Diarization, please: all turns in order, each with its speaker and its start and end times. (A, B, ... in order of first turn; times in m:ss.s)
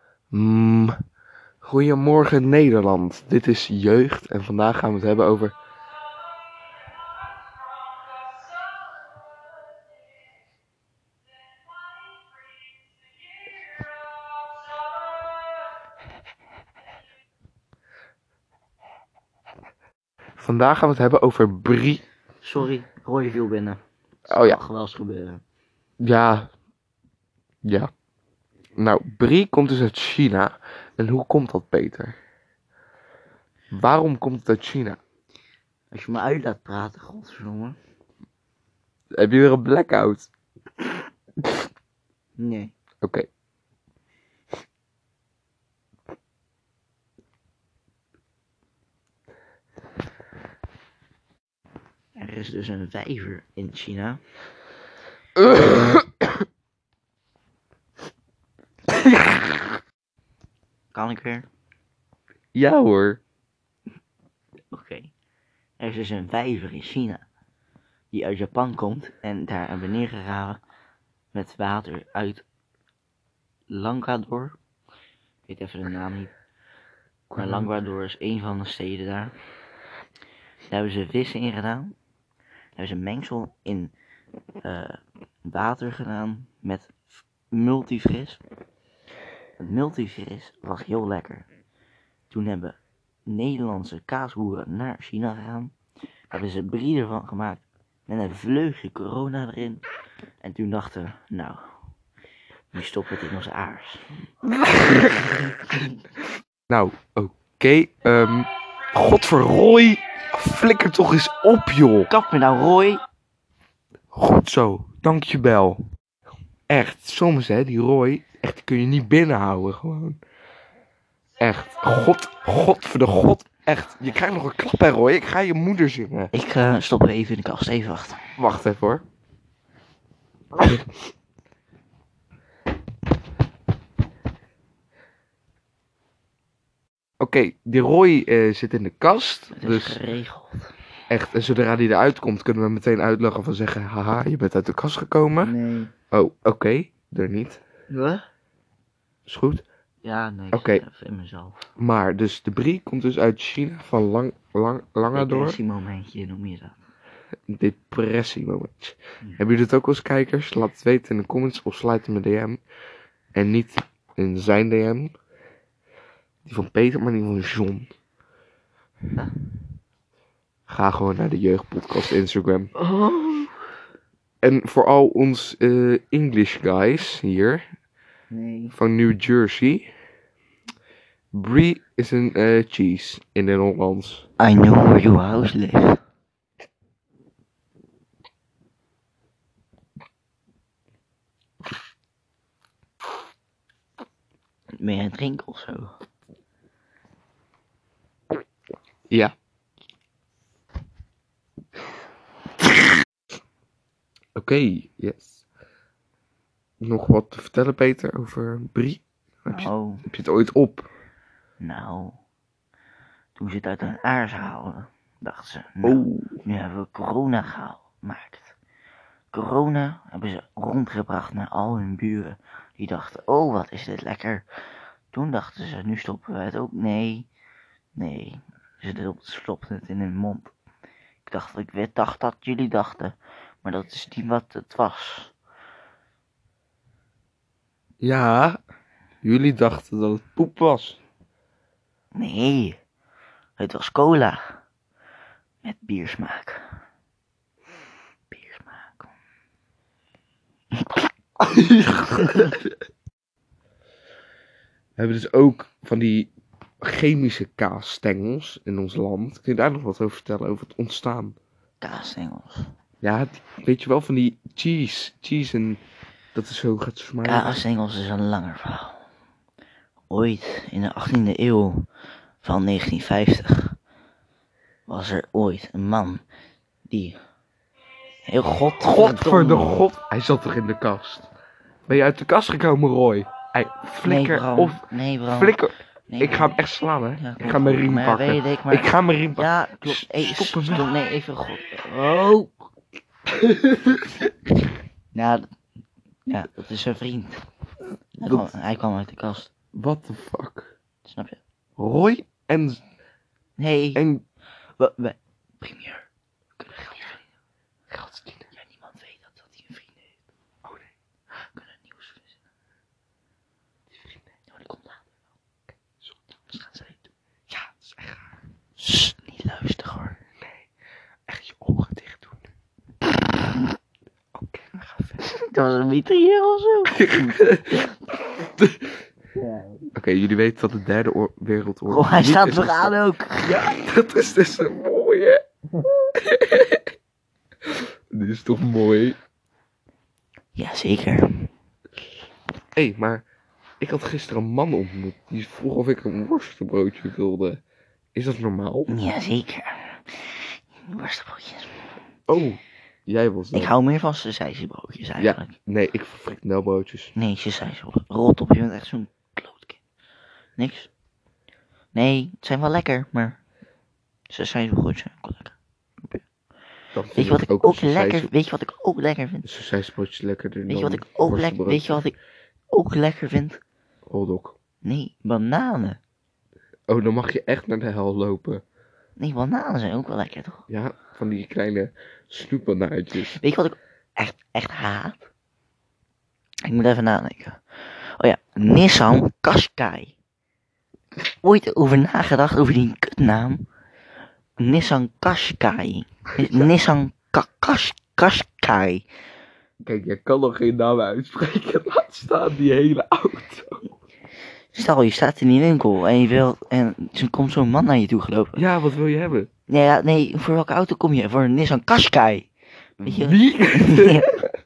0:00.3-0:00.9 A
0:01.6-0:05.5 A
0:20.4-0:22.0 A
0:22.4-0:25.4 B
0:24.3-0:24.6 A
0:26.0-0:26.5 A
0:27.6-0:27.9 A
0:28.8-0:32.1 A
0:33.7-0:35.0 A
0:35.9-0:37.8 B
0:39.2-0:40.3 A
0:42.4-0:42.7 B
0:43.0-0:43.3 A
0:52.2-0:54.2 B
0:55.4-0:56.2 A
1:00.9-1:01.5 B
1:02.5-1:03.2 A
1:04.7-1:05.1 B
1:05.8-1:07.2 B
1:08.1-1:10.6 B
1:11.3-1:12.4 B
1:13.7-1:14.6 B
1:15.5-1:16.3 B
1:17.3-1:17.7 A
1:17.4-1:19.3 B
1:20.7-1:21.9 B
1:22.8-1:23.9 B
1:24.6-1:26.9 B
1:27.5-1:28.4 B
1:29.6-1:31.5 B
1:32.3-1:35.7 B
1:36.3-1:39.8 B
1:40.4-1:41.7 B
1:42.7-1:44.1 B
1:44.7-1:45.3 A
1:46.7-1:52.1 A
1:52.1-1:53.0 B
1:54.1-1:55.8 A
1:56.7-2:00.2 A
2:01.4-2:06.3 A
2:06.3-2:08.3 B
2:08.4-2:09.0 A
2:17.2-2:20.0 A
2:19.5-2:20.7 B
2:21.1-2:25.5 A
2:25.4-2:25.9 B
2:26.1-2:27.6 A
2:27.9-2:28.2 B
2:29.3-2:29.6 A
2:30.0-2:31.7 B
2:30.5-2:30.8 A
2:31.8-2:35.6 A
2:35.1-2:36.8 B
2:37.5-2:42.6 A
2:43.3-2:45.1 A
2:46.4-2:47.9 A
2:50.7-2:52.7 A
2:52.8-2:53.5 B
2:54.4-2:57.6 A
2:58.3-2:58.7 B
2:58.7-2:59.9 A
3:01.3-3:04.2 A
3:04.4-3:06.0 B
3:14.8-3:15.9 B
3:24.4-3:25.4 A
3:26.8-3:30.9 A
3:29.5-3:30.1 B
3:31.6-3:32.2 B
3:33.4-3:38.5 B
3:35.8-3:36.4 A
3:39.3-3:44.4 B
3:45.1-3:47.3 B
3:47.9-3:50.5 B
3:51.2-3:55.3 B
3:58.0-3:58.6 A
3:59.2-4:01.0 A
4:02.1-4:02.8 B
4:03.6-4:04.6 B
4:05.6-4:06.6 B
4:08.3-4:09.1 B
4:10.8-4:12.6 B
4:15.0-4:16.3 A
4:16.8-4:21.4 A
4:21.8-4:22.7 B
4:23.0-4:25.8 A
4:26.3-4:27.6 A
4:27.2-4:29.0 B
4:30.1-4:31.9 B
4:32.4-4:33.8 B
4:34.9-4:36.2 B
4:36.9-4:37.2 B
4:38.2-4:39.8 B
4:38.8-4:41.3 A
4:41.9-4:50.9 A
4:44.0-4:45.6 B
4:46.1-4:46.6 B
4:47.2-4:52.6 B
4:53.4-4:53.9 B
4:55.1-4:55.4 B
4:56.3-4:57.4 B
4:58.2-4:59.5 B
4:58.2-4:58.5 A
4:59.7-5:00.7 A
5:01.0-5:01.4 B
5:01.8-5:02.8 A
5:03.6-5:04.0 B
5:03.9-5:04.2 A
5:04.8-5:06.1 B
5:06.6-5:07.2 B
5:07.9-5:08.4 A
5:08.6-5:09.9 B
5:11.5-5:12.2 B
5:14.5-5:15.0 B
5:16.5-5:17.0 B
5:17.5-5:18.1 A
5:18.8-5:20.2 B
5:21.3-5:22.4 A
5:24.3-5:24.8 A
5:25.2-5:27.4 B
5:26.8-5:27.8 A
5:28.4-5:28.8 A
5:29.4-5:29.8 B
5:29.9-5:35.4 A
5:31.9-5:33.6 B
5:36.2-5:36.8 A
5:38.1-5:39.2 A
5:40.5-5:41.5 B
5:42.8-5:43.2 A
5:43.8-5:47.6 A
5:48.1-5:48.9 A
5:48.9-5:51.8 B
5:52.3-5:53.7 A
5:53.5-5:55.6 B
5:55.2-5:57.1 A
5:57.1-5:59.8 B
6:00.6-6:00.9 B
6:01.9-6:03.4 B
6:04.3-6:06.2 B
6:06.9-6:08.3 A
6:07.1-6:09.5 B
6:09.4-6:12.0 A
6:10.7-6:12.2 B
6:12.7-6:13.6 B
6:14.0-6:14.6 A
6:14.8-6:16.0 B
6:16.9-6:18.6 A
6:19.2-6:20.6 B
6:20.7-6:23.4 A
6:23.3-6:25.2 B
6:26.6-6:27.6 B
6:28.2-6:30.1 B
6:31.3-6:33.6 B
6:34.6-6:39.0 B
6:36.4-6:36.7 A
6:39.8-6:43.8 A
6:44.7-6:48.6 B
6:48.6-6:49.5 A
6:49.7-6:52.5 B
6:53.0-6:54.2 B
6:53.0-6:54.5 A